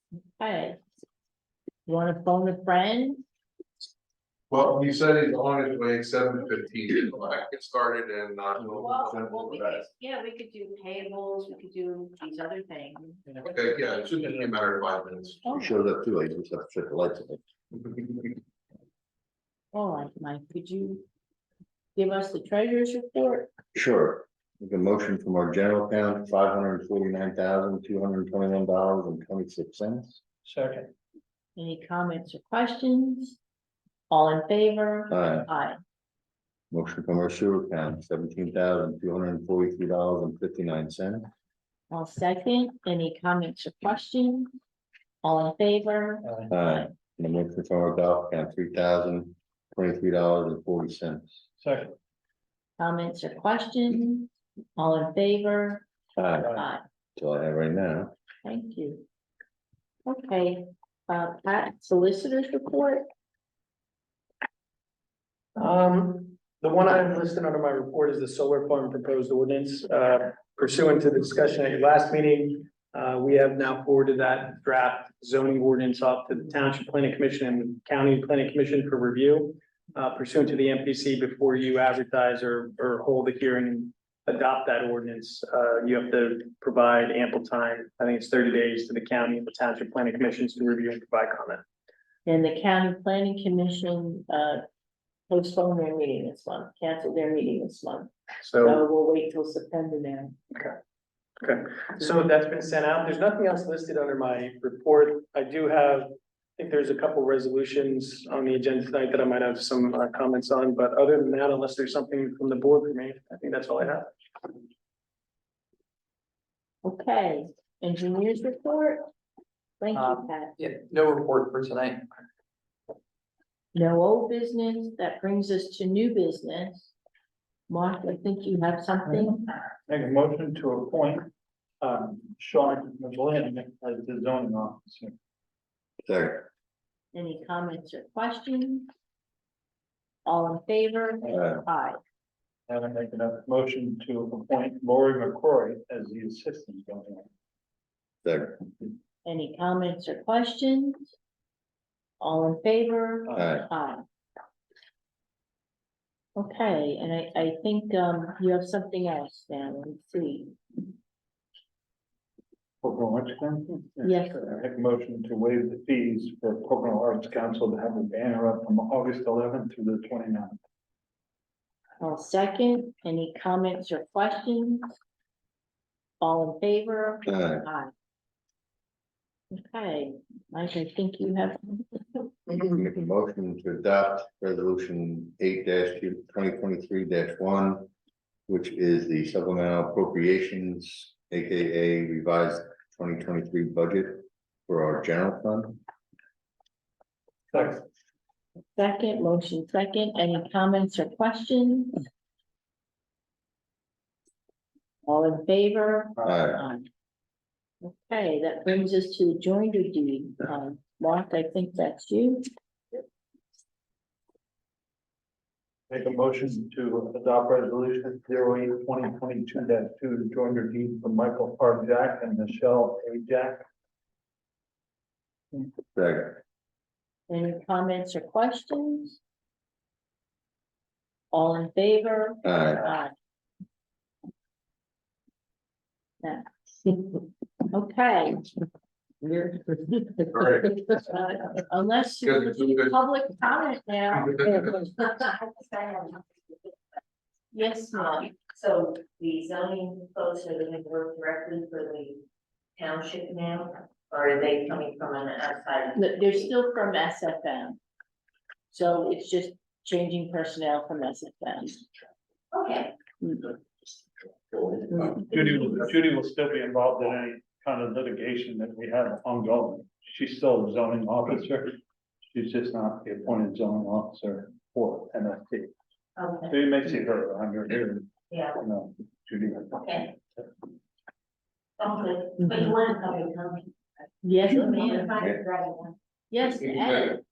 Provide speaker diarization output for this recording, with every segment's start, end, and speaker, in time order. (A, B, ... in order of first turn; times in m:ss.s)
0:00.4-0:00.8 A
0:01.8-0:03.2 A
0:04.5-0:09.8 B
0:08.8-0:13.2 A
0:13.4-0:15.4 B
0:15.4-0:15.7 A
0:15.5-0:17.4 C
0:19.7-0:21.0 A
0:22.0-0:23.5 A
0:23.7-0:30.2 C
0:30.4-0:30.9 D
0:31.6-0:33.4 A
0:34.1-0:35.8 A
0:35.1-0:35.5 C
0:36.7-0:41.3 C
0:41.9-0:44.5 A
0:45.2-0:46.9 A
0:46.2-0:46.5 D
0:46.5-0:51.4 C
0:51.6-0:51.9 D
0:52.8-0:55.8 A
0:56.2-0:56.5 C
0:56.4-0:56.8 A
0:57.2-0:58.1 C
0:58.4-0:59.0 A
1:00.0-1:03.0 A
1:05.6-1:31.6 E
1:32.2-1:34.6 A
1:35.3-1:40.3 A
1:38.4-1:38.8 E
1:41.4-1:54.1 E
1:56.8-1:59.1 A
1:59.8-2:00.6 A
1:59.9-2:02.1 F
2:03.7-2:06.9 A
2:07.7-2:09.7 A
2:09.1-2:15.1 D
2:16.0-2:16.5 C
2:17.1-2:18.9 A
2:20.2-2:22.0 A
2:22.7-2:27.3 D
2:28.2-2:28.6 C
2:29.2-2:31.1 A
2:32.2-2:34.0 A
2:33.4-2:33.7 C
2:36.4-2:40.5 A
2:42.8-2:50.6 D
2:44.0-2:44.6 A
2:52.0-2:54.9 A
2:56.2-2:57.9 A
2:57.3-2:57.6 C
2:59.5-3:01.8 A
3:02.7-3:07.9 C
3:08.5-3:15.8 C
3:17.5-3:17.8 D
3:18.8-3:22.0 A
3:25.0-3:26.9 A
3:26.2-3:26.6 C
3:27.8-3:32.5 A
3:35.9-3:43.6 D
3:45.9-3:46.4 C
3:47.3-3:49.2 A
3:51.3-3:53.1 A
3:52.4-3:52.8 C
3:56.2-3:57.2 A
3:57.7-3:58.5 A
4:00.3-4:01.0 B
4:01.0-4:05.1 A
4:02.2-4:03.0 B
4:05.1-4:06.3 G
4:07.5-4:08.3 A
4:08.0-4:12.2 G
4:12.8-4:16.0 G
4:15.9-4:17.8 A
4:18.7-4:21.8 A
4:22.5-4:22.9 G
4:25.0-4:31.8 D
4:32.3-4:35.7 D
4:36.2-4:36.5 G
4:36.5-4:40.0 D
4:41.8-4:43.7 G
4:44.2-4:45.2 A
4:44.4-4:45.9 G
4:46.3-4:47.2 A
4:46.6-4:47.0 B